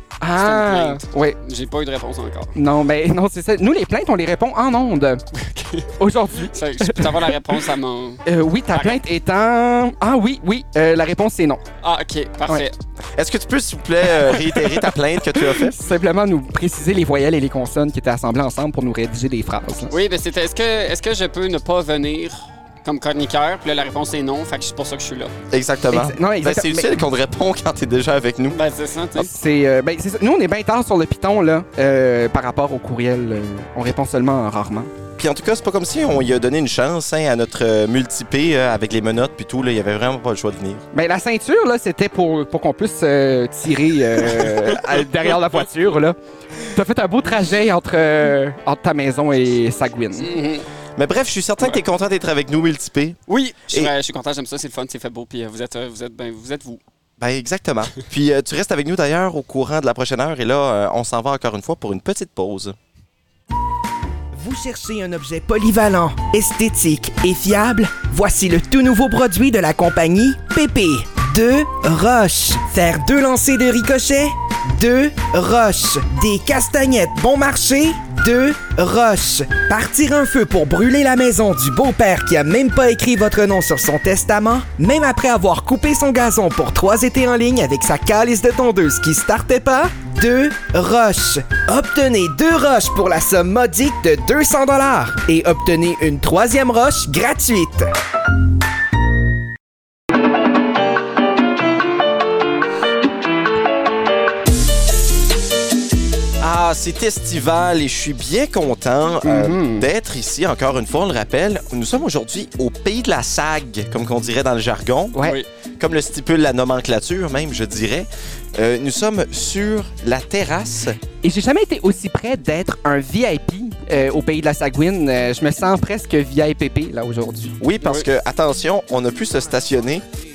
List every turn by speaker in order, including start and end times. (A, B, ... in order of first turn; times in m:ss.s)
0:00.2-0:01.4 A
0:00.4-0:02.6 B
0:02.6-0:05.2 A
0:05.3-0:09.0 B
0:06.0-0:07.4 A
0:08.2-0:11.6 A
0:11.8-0:12.8 B
0:13.2-0:15.8 C
0:15.4-0:20.0 A
0:19.9-0:25.4 B
0:25.5-0:28.6 C
0:25.9-0:26.9 A
0:28.5-0:29.3 B
0:29.2-0:34.9 A
0:35.2-0:40.8 C
0:40.9-0:46.2 A
0:44.3-0:44.7 B
0:46.7-0:50.3 A
0:50.2-0:50.7 B
0:51.0-0:53.9 C
0:53.3-0:56.8 B
0:57.2-1:02.8 C
1:04.3-1:37.9 D
1:46.4-1:55.2 C
1:49.3-1:49.8 A
1:55.2-1:55.5 B
1:55.8-2:01.0 C
2:01.2-2:07.6 A
2:07.6-2:10.1 C
2:07.8-2:08.1 B